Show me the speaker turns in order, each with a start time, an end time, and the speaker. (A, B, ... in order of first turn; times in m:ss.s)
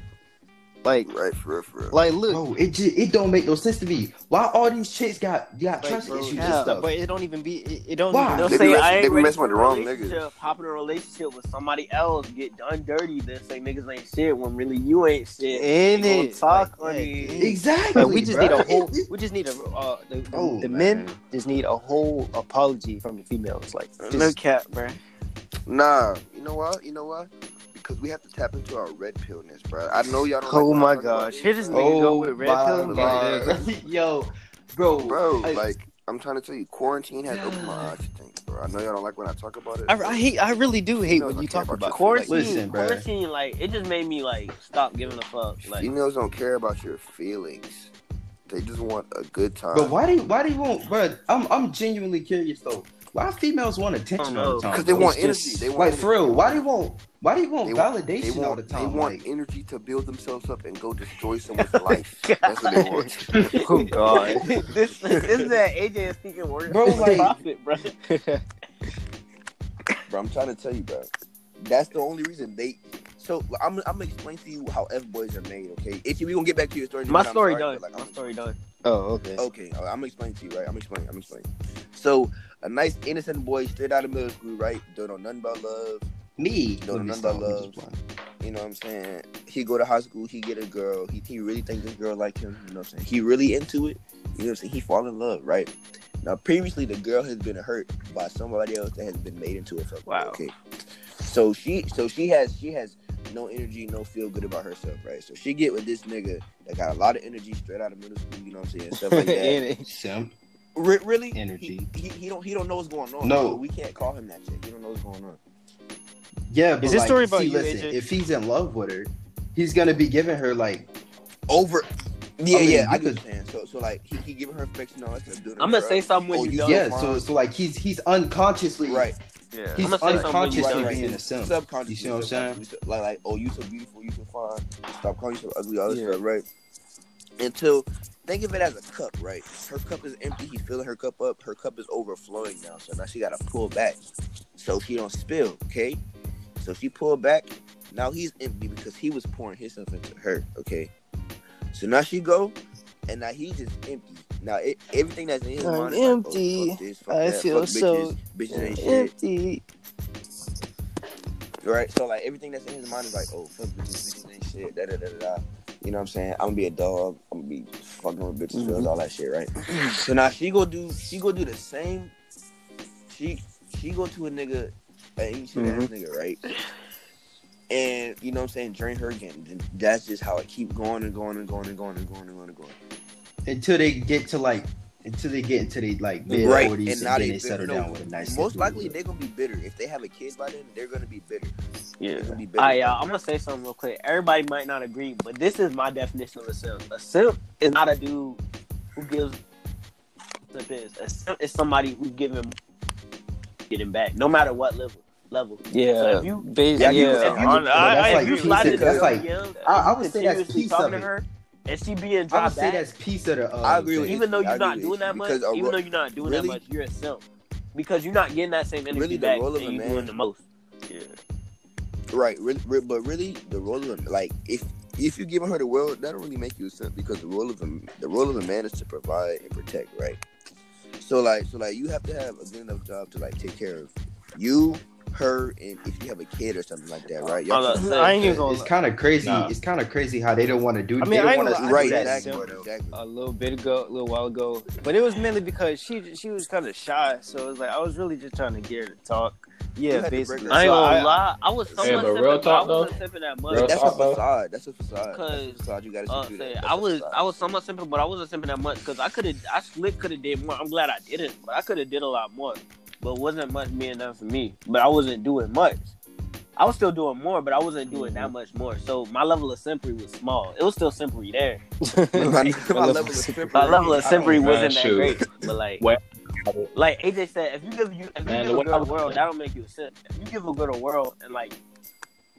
0:00.8-0:01.1 A
0:01.0-0:02.0 B
0:01.9-0:02.4 A
0:02.3-0:06.9 C
0:05.8-0:08.8 A
0:06.1-0:06.8 D
0:08.1-0:08.6 C
0:08.4-0:17.6 D
0:08.4-0:10.2 B
0:15.5-0:24.4 A
0:17.4-0:19.1 C
0:20.3-0:21.2 C
0:24.0-0:25.0 D
0:25.7-0:31.9 B
0:30.4-0:33.6 A
0:31.7-0:35.6 C
0:32.7-0:33.6 B
0:35.0-0:40.2 B
0:37.3-0:37.9 C
0:39.9-0:42.5 A
0:41.0-0:42.3 B
0:41.9-0:45.9 D
0:42.3-0:43.1 C
0:45.6-0:47.9 B
0:48.5-0:49.9 B
0:49.7-0:59.3 C
0:54.2-0:54.7 D
0:54.7-0:56.5 B
0:57.6-1:03.5 B
1:01.6-1:07.9 D
1:02.9-1:04.4 A
1:04.6-1:05.5 B
1:06.7-1:07.3 C
1:06.9-1:07.3 A
1:08.0-1:08.4 A
1:10.1-1:11.1 B
1:11.6-1:18.3 B
1:17.1-1:18.6 D
1:18.8-1:19.4 A
1:19.4-1:26.1 B
1:26.4-1:28.0 C
1:26.8-1:27.8 B
1:28.4-1:40.5 B
1:40.1-1:40.4 A
1:41.2-1:49.6 B
1:48.9-1:49.9 A
1:49.8-1:50.3 C
1:50.8-1:55.4 B
1:51.4-1:51.9 C
1:53.2-1:53.6 C
1:56.5-2:00.9 C
1:56.8-1:58.0 A
2:01.5-2:07.2 B
2:02.5-2:03.2 C
2:05.6-2:06.9 D
2:06.6-2:09.1 C
2:08.9-2:09.2 B
2:09.5-2:10.0 A
2:09.8-2:12.6 C
2:09.8-2:11.1 D
2:10.1-2:16.4 B
2:15.9-2:16.2 A
2:17.4-2:24.0 B
2:24.6-2:26.0 B
2:26.6-2:30.9 B
2:31.7-2:32.6 B
2:33.1-2:39.1 B
2:35.6-2:39.6 A
2:41.6-2:52.1 B
2:48.5-2:48.9 A
2:53.1-2:56.4 B
2:55.6-2:55.9 A
2:57.7-3:02.8 B
3:03.5-3:09.0 C
3:06.2-3:06.7 E
3:06.4-3:11.5 B
3:12.0-3:12.4 A
3:12.2-3:13.1 B
3:12.6-3:18.4 D
3:19.0-3:19.4 D
3:20.5-3:22.6 D
3:23.7-3:32.8 D
3:25.7-3:29.1 A
3:26.8-3:29.1 B
3:27.8-3:31.1 C
3:32.3-3:34.2 C
3:33.6-3:36.6 B
3:34.0-3:37.2 D
3:37.8-3:40.4 D
3:38.9-3:40.1 B
3:40.9-3:41.1 A
3:42.1-3:50.2 B
3:51.0-3:58.0 B
3:57.2-3:58.7 A
3:57.5-3:58.3 D
3:58.2-4:02.7 C
3:59.2-3:59.6 E
4:01.0-4:11.2 A
4:01.2-4:03.0 B
4:09.9-4:12.1 B
4:10.5-4:13.9 D
4:11.8-4:13.0 E
4:13.5-4:14.2 E
4:13.6-4:17.2 B
4:15.1-4:25.9 D
4:26.6-4:31.6 D
4:27.9-4:28.3 A
4:31.8-4:33.9 A
4:32.1-4:34.5 B
4:33.5-4:35.8 D
4:34.1-4:36.7 E
4:36.7-4:41.6 D
4:38.3-4:39.2 E